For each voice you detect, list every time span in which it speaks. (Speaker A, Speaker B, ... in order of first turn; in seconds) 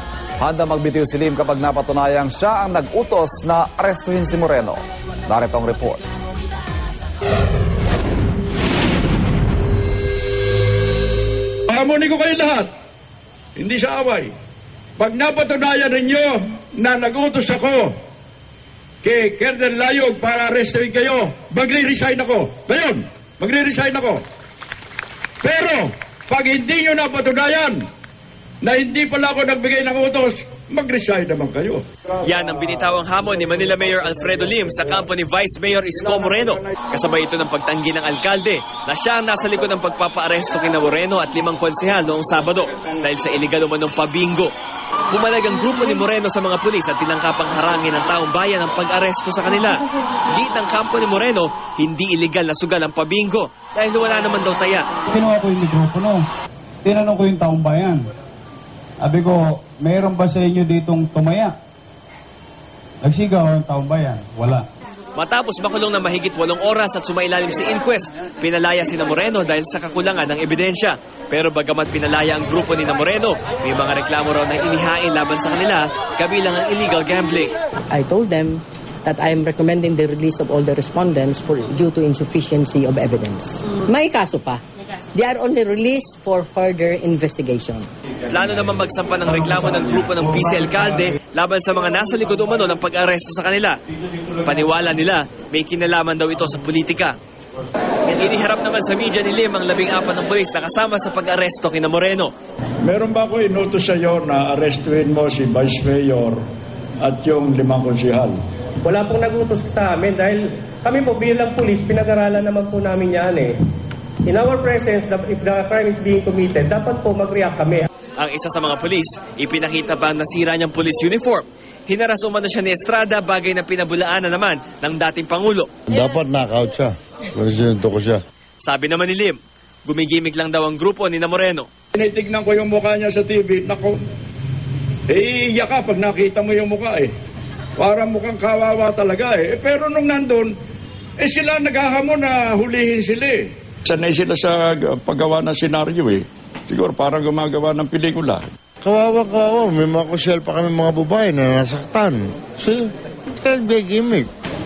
Speaker A: 0.4-6.0
Speaker B: 11.7-12.7, 13.6-14.3, 15.0-17.9, 19.0-24.2, 25.4-27.8, 28.6-31.8, 102.8-106.4, 107.0-108.4, 131.9-134.0, 135.1-137.1, 137.8-140.5, 141.2-148.4
Speaker C: 32.3-44.5, 45.1-49.8, 50.3-54.9, 65.1-77.5, 88.3-93.8, 94.4-97.2, 98.1-102.3, 118.2-125.7, 128.6-131.7
Speaker D: 55.1-56.3, 56.8-58.1, 59.0-61.5, 63.0-64.7
Speaker E: 77.9-87.9
Speaker F: 108.8-113.5, 114.3-117.9
Speaker G: 125.9-128.2, 148.8-154.3